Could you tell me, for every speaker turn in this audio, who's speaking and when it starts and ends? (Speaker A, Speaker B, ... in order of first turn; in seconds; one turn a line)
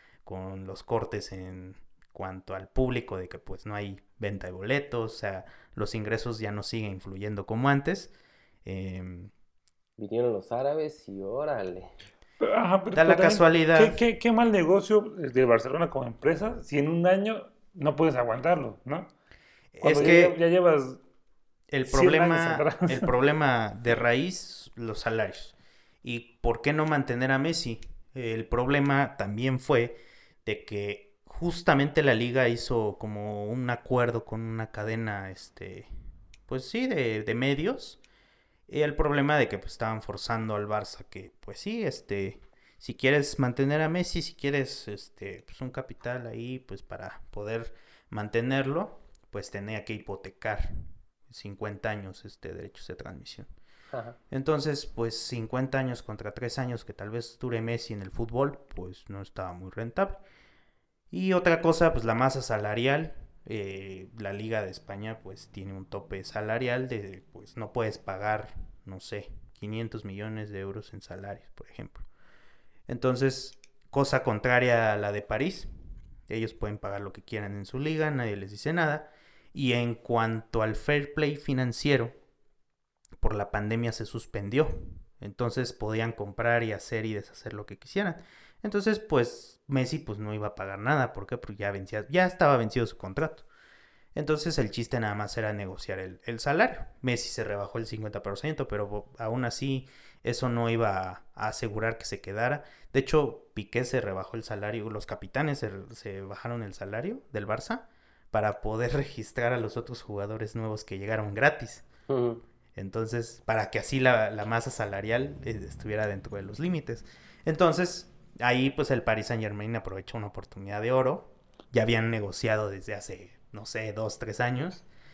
Speaker A: 0.2-8.1
Speaker A: 8.7-9.3
Speaker B: 10.0-11.9
Speaker C: 12.4-19.1
Speaker A: 12.9-14.0
Speaker A: 19.7-20.4
Speaker C: 19.8-21.0
Speaker A: 21.7-35.9
Speaker C: 21.9-23.1
Speaker A: 36.5-38.0
Speaker A: 38.7-53.5
Speaker B: 53.9-54.2
Speaker A: 54.3-60.2
Speaker A: 61.1-72.1
Speaker A: 72.9-75.7
Speaker A: 76.3-82.2
Speaker A: 83.2-93.5
Speaker A: 94.2-111.8
Speaker B: 112.1-112.4
Speaker A: 112.8-124.9